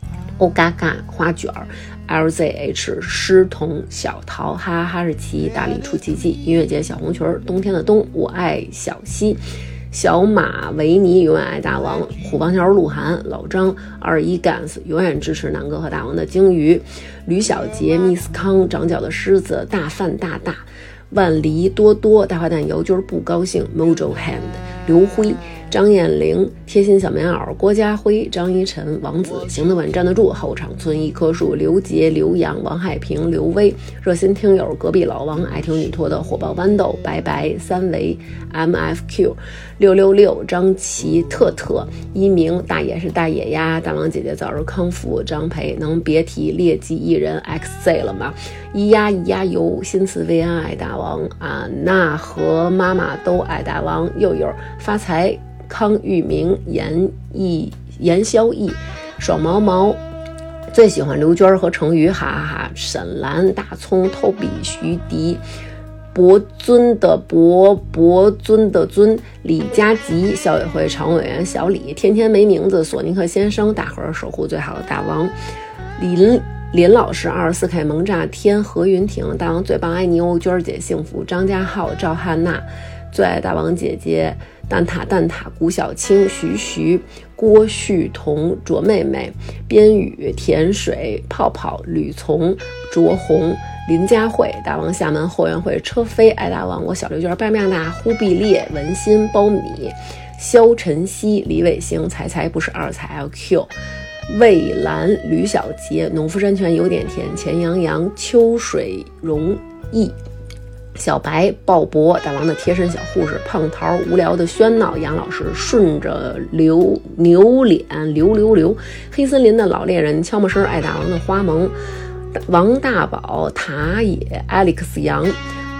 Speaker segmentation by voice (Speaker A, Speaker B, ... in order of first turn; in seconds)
Speaker A: 0.4-60.0, 60.7-65.4, 66.1-75.3, 76.0-103.7, 104.3-110.2, 110.9-121.7, 122.3-125.4